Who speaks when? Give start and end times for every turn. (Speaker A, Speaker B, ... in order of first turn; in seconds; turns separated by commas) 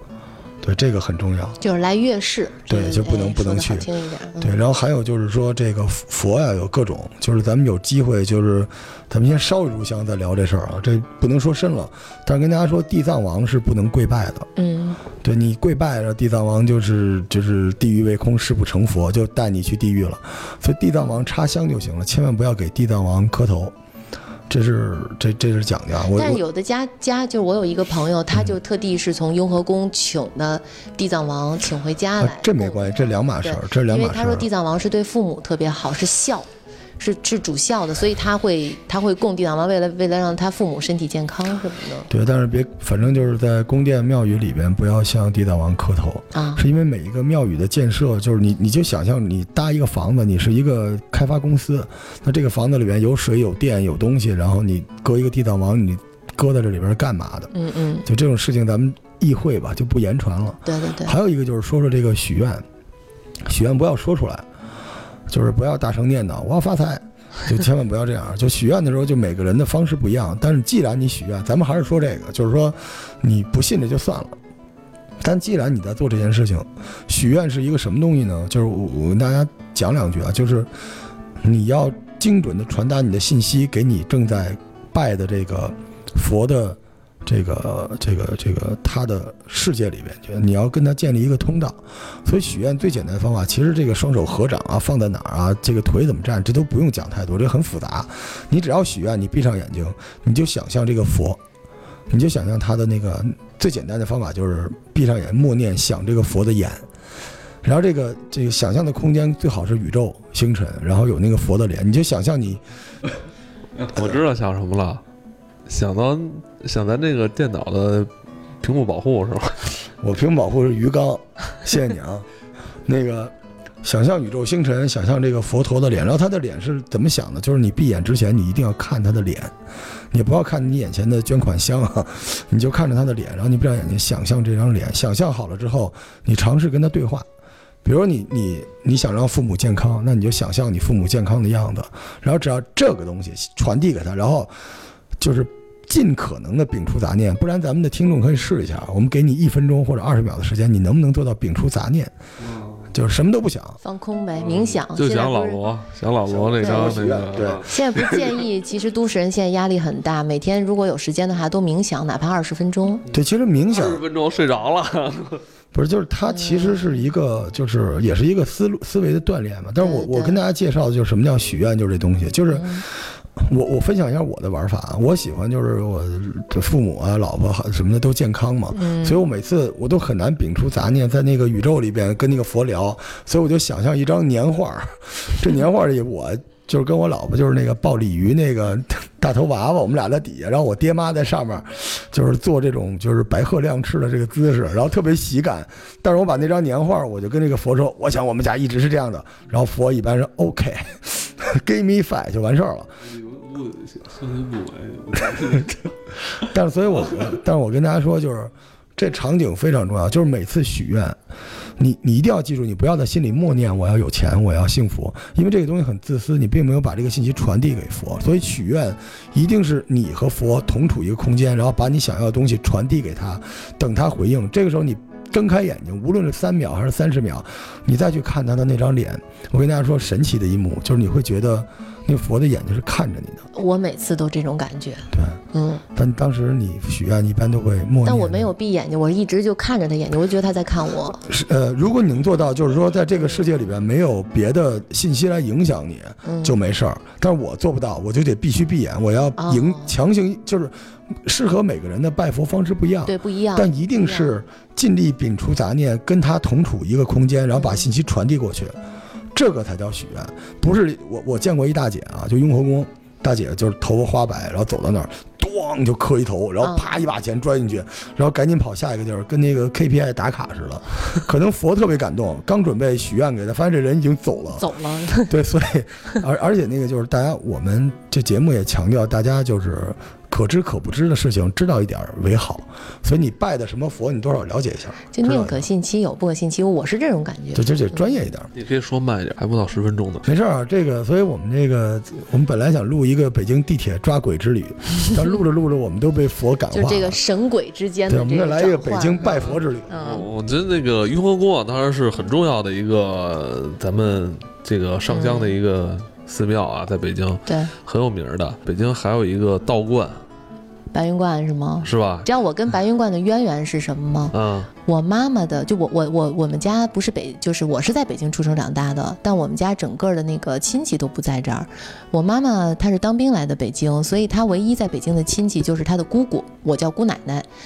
Speaker A: 0.6-1.6, Speaker B: 1.6-4.5, Speaker A: 2.7-3.9, Speaker A: 4.4-14.5, Speaker B: 14.6-15.0, Speaker A: 15.2-23.7, Speaker A: 24.5-26.4, Speaker B: 26.1-32.8, Speaker A: 32.2-34.5, Speaker B: 33.4-36.5, Speaker B: 37.0-42.1, Speaker A: 42.1-57.5, Speaker B: 46.3-46.6, Speaker B: 57.5-58.0, Speaker A: 58.0-62.6, Speaker B: 60.6-61.1, Speaker A: 63.4-64.5, Speaker A: 65.3-74.4, Speaker A: 75.2-80.7, Speaker A: 81.4-101.4, Speaker A: 102.1-106.8, Speaker A: 107.6-112.6, Speaker C: 113.8-115.0, Speaker C: 115.7-118.1, Speaker C: 118.6-119.8, Speaker A: 120.0-122.2, Speaker A: 122.8-129.5, Speaker A: 130.1-137.2, Speaker A: 137.8-144.5, Speaker A: 145.2-152.1, Speaker C: 152.4-152.9, Speaker A: 152.9-153.8, Speaker B: 153.8-155.6, Speaker C: 154.4-158.4, Speaker A: 156.2-157.6, Speaker B: 156.6-157.1, Speaker B: 157.6-163.0, Speaker A: 163.1-164.0, Speaker C: 163.7-165.4, Speaker A: 165.7-202.9, Speaker B: 166.3-166.9, Speaker B: 169.8-170.4, Speaker B: 172.5-172.8, Speaker B: 178.7-179.2, Speaker C: 203.0-205.9, Speaker A: 206.3-211.2, Speaker A: 211.8-233.4, Speaker B: 233.5-235.8, Speaker A: 235.1-235.4, Speaker A: 235.9-238.5, Speaker B: 238.0-241.2, Speaker A: 241.2-250.7, Speaker B: 246.2-246.6, Speaker B: 249.4-249.9, Speaker A: 251.2-258.8, Speaker B: 253.1-254.4, Speaker B: 257.5-257.9, Speaker A: 259.3-274.7, Speaker B: 266.6-266.9, Speaker B: 274.5-275.4, Speaker A: 275.2-285.7, Speaker B: 285.1-288.0, Speaker A: 287.5-288.5, Speaker C: 288.5-290.3, Speaker A: 290.2-297.2, Speaker B: 296.7-300.3, Speaker A: 298.1-299.9, Speaker C: 299.2-310.2, Speaker B: 305.1-305.5, Speaker B: 307.5-307.7, Speaker B: 310.9-327.5, Speaker C: 311.8-312.3, Speaker C: 314.3-314.7